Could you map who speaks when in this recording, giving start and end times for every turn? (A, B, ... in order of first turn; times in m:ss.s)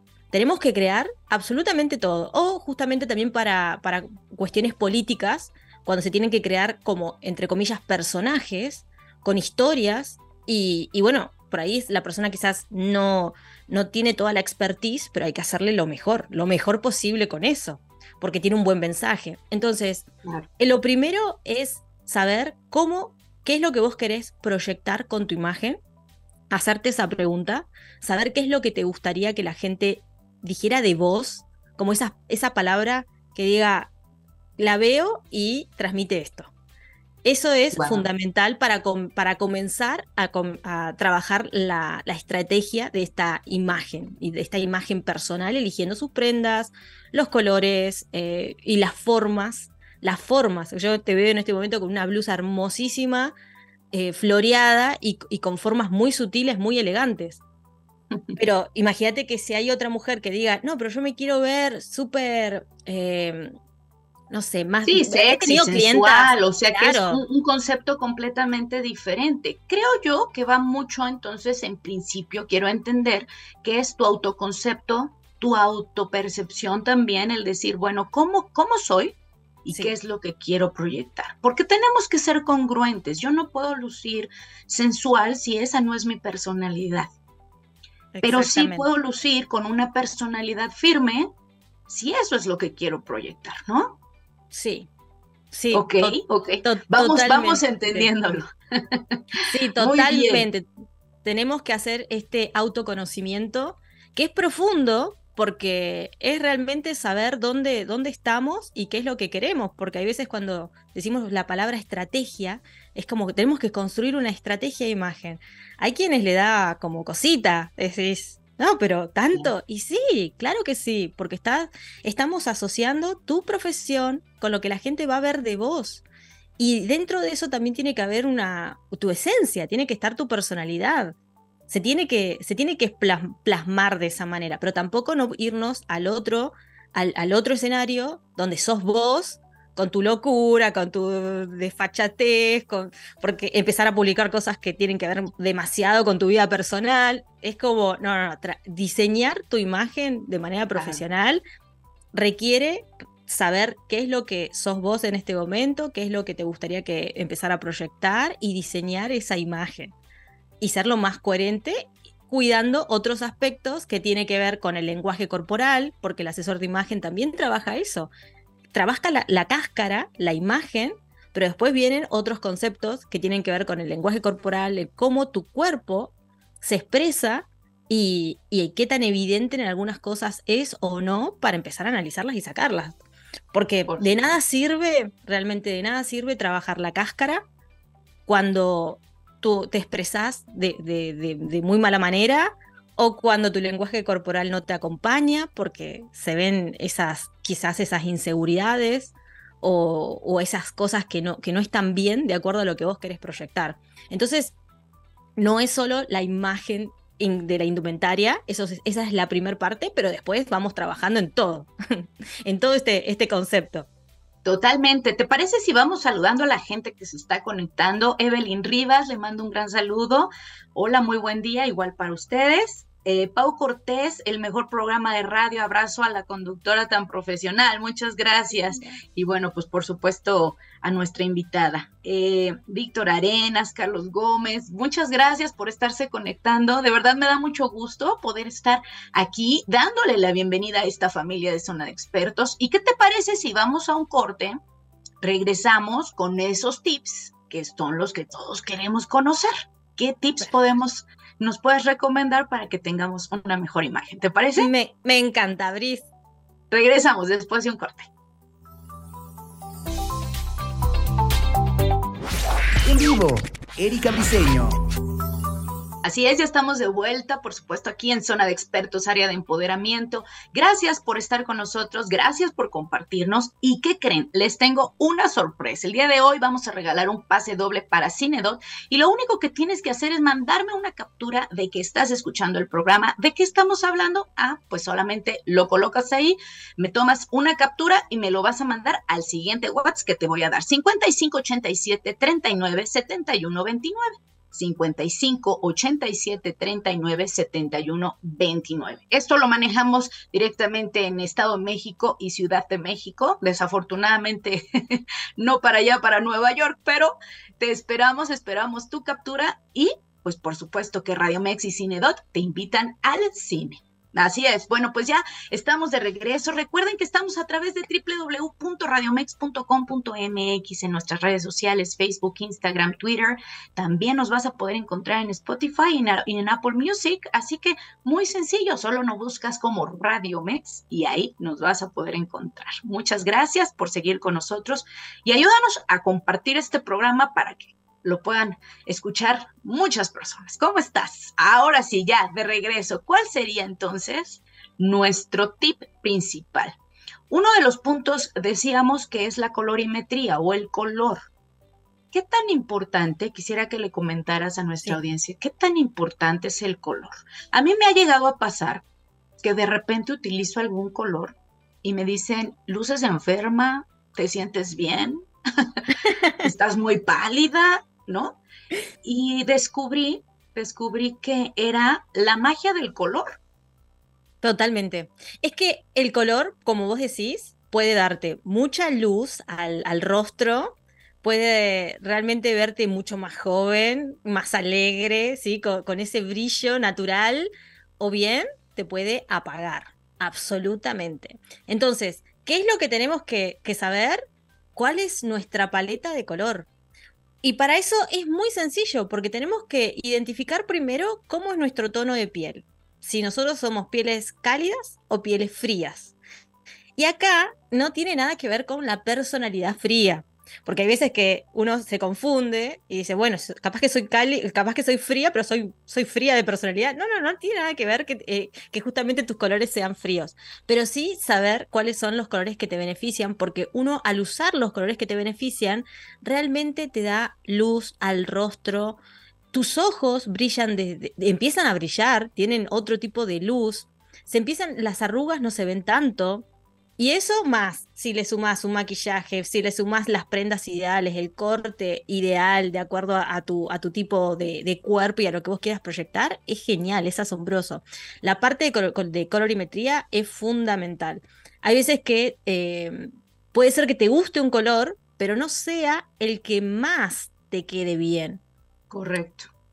0:00.3-0:20.1 A
0:20.6-0:25.8 A
0:26.5-0:33.9 A
0:34.6-0:36.5 A
0:37.2-0:53.3 A
0:37.7-0:38.1 B
0:53.9-0:57.4 A
0:58.4-1:03.5 A
1:04.3-1:07.2 A
1:04.9-1:27.1 B
1:28.2-1:28.9 A
1:28.2-1:31.3 B
1:31.9-1:34.0 B
1:34.5-1:34.9 A
1:35.5-1:38.1 A
1:35.7-1:40.5 B
1:39.5-1:40.6 A
1:41.2-2:06.0 A
2:06.6-2:11.2 A
2:11.7-2:31.4 A
2:30.8-2:31.0 B
2:32.2-2:39.9 A
2:40.6-2:48.1 A
2:48.7-3:03.0 A
3:03.5-3:07.4 A
3:03.9-3:04.4 B
3:08.3-3:24.6 A
3:25.4-3:33.9 A
3:34.4-4:04.6 B
4:05.2-4:14.7 B
4:14.6-4:16.1 A
4:16.7-4:18.1 B
4:22.8-4:24.8 C
4:26.0-5:46.8 B
5:47.3-5:51.2 B
5:52.1-5:58.8 B
5:59.4-6:05.8 B
6:06.0-6:06.5 A
6:06.4-6:08.4 B
6:09.0-6:13.4 B
6:14.4-6:36.7 A
6:37.4-6:46.2 A
6:47.0-7:09.0 A
7:09.5-7:16.5 A
7:17.0-7:38.4 A
7:38.9-7:39.5 B